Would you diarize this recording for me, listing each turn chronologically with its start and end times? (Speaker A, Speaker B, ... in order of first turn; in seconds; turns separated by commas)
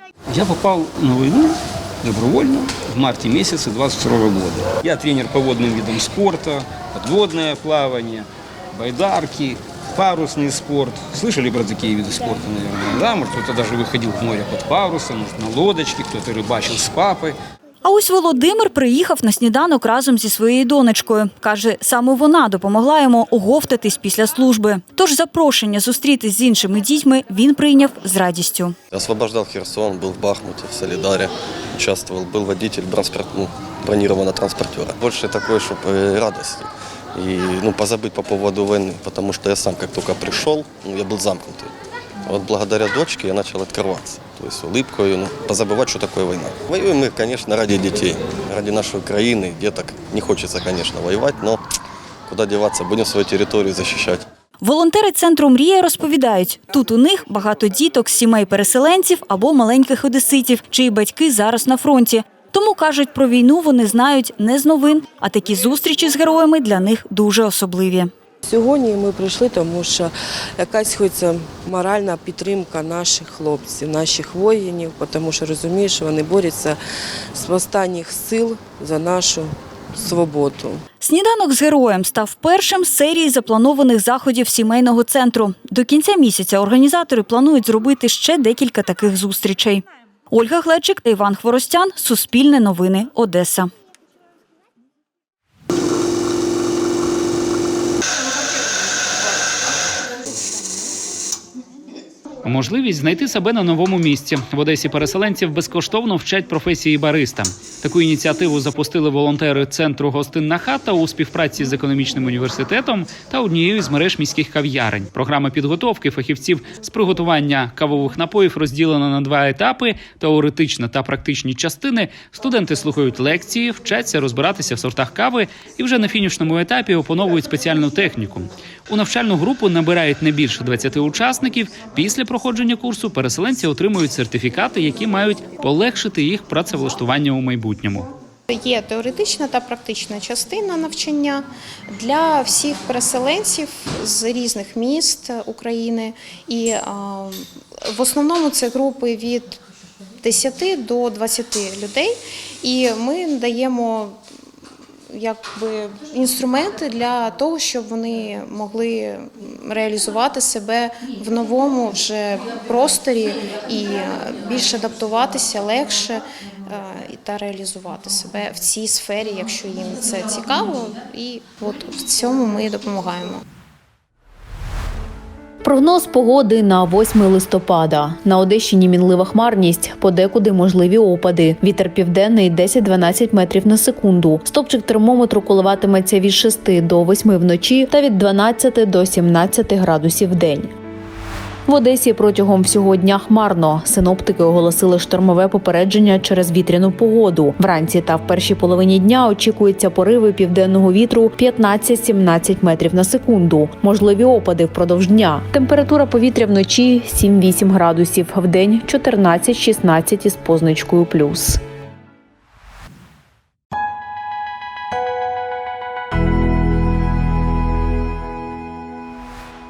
Speaker A: 0.3-17.4, Speaker B: 17.8-28.7, Speaker C: 28.9-41.7, Speaker C: 42.2-51.6, Speaker C: 52.3-54.2, Speaker B: 54.6-68.1, Speaker D: 68.5-76.8, Speaker D: 77.4-79.5, Speaker D: 80.0-80.8, Speaker B: 81.0-93.7, Speaker E: 102.4-138.1, Speaker F: 138.5-147.4, Speaker F: 147.9-149.6, Speaker F: 150.2-154.2, Speaker F: 155.1-173.4, Speaker G: 175.6-190.7, Speaker G: 191.7-211.6